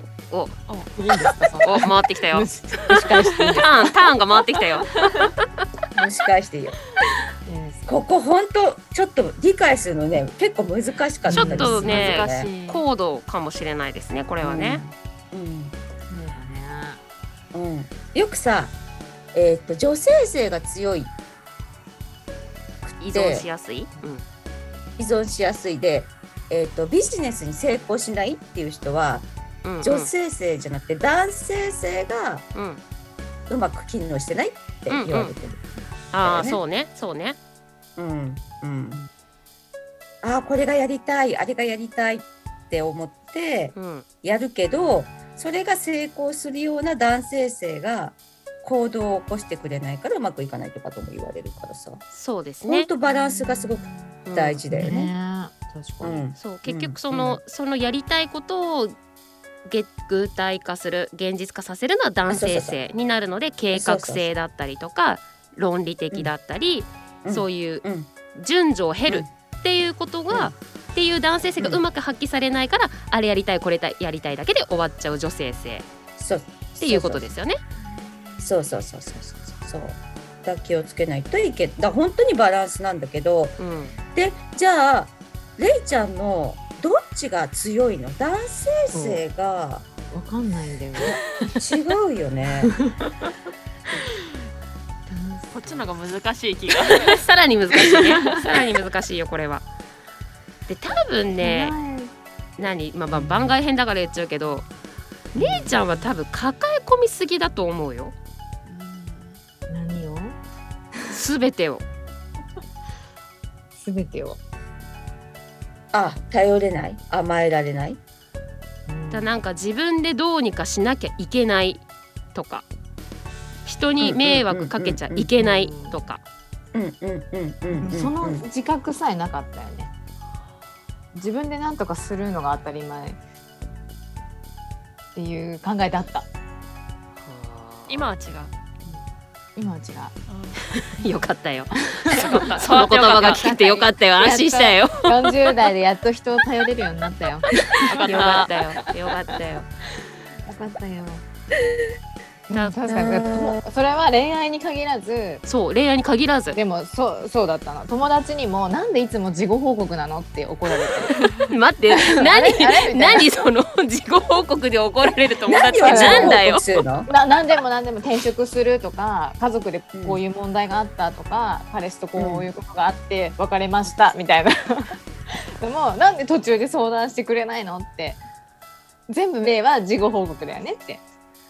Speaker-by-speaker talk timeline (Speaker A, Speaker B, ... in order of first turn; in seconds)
Speaker A: 0.3-0.6, 1.6-5.0, 11.3-14.8, 23.0-24.2, 29.6-30.1, 32.5-32.8, 34.9-35.3, 36.1-37.4, 43.7-44.0, 52.1-52.9, 54.2-54.6, 56.4-58.9, 59.6-75.8, 76.8-77.6, 83.6-83.9, 96.9-99.6, 100.7-101.8, 102.6-104.7, 105.3-108.1, 111.1-111.8, 119.1-121.8, 122.3-122.6, 123.7-126.2, 137.2-138.1, 140.9-145.5, 147.8-149.7, 155.4-156.6, 161.4-166.7
Speaker B: 0.7-0.9, 3.4-3.7, 11.7-12.8, 95.5-97.2, 108.7-109.4, 137.9-138.5, 140.3-140.6, 142.1-143.5, 147.8-148.6
Speaker C: 1.0-3.9, 7.5-7.9, 11.2-12.0, 16.1-17.0, 54.7-56.2, 88.9-89.2, 90.1-91.6, 92.7-93.3, 95.1-95.9, 101.4-102.1, 105.4-106.0, 109.7-110.4, 113.8-114.4, 118.9-119.4, 125.4-126.0, 127.7-129.9, 131.1-133.2, 135.1-136.3, 139.6-140.2, 142.0-142.5, 143.0-148.9, 150.4-151.2, 152.5-155.4, 156.5-163.3, 165.8-166.4, 167.1-178.2, 179.1-181.0
Speaker D: 5.9-6.8, 7.8-12.5, 14.4-15.7, 17.5-18.7, 19.3-21.1, 22.8-23.4, 25.0-29.3, 29.8-32.5, 33.5-35.6, 36.2-36.6, 38.0-39.0, 40.2-52.0, 52.6-55.1, 56.0-57.4, 62.3-62.8, 63.7-64.3, 67.2-68.1, 70.3-70.5, 76.2-77.3, 78.4-83.6, 84.1-89.8, 91.1-92.7, 103.2-103.5, 115.9-118.0, 124.0-125.3, 126.7-128.4, 152.9-153.6, 165.5-167.1, 169.9-170.2, 172.2-172.5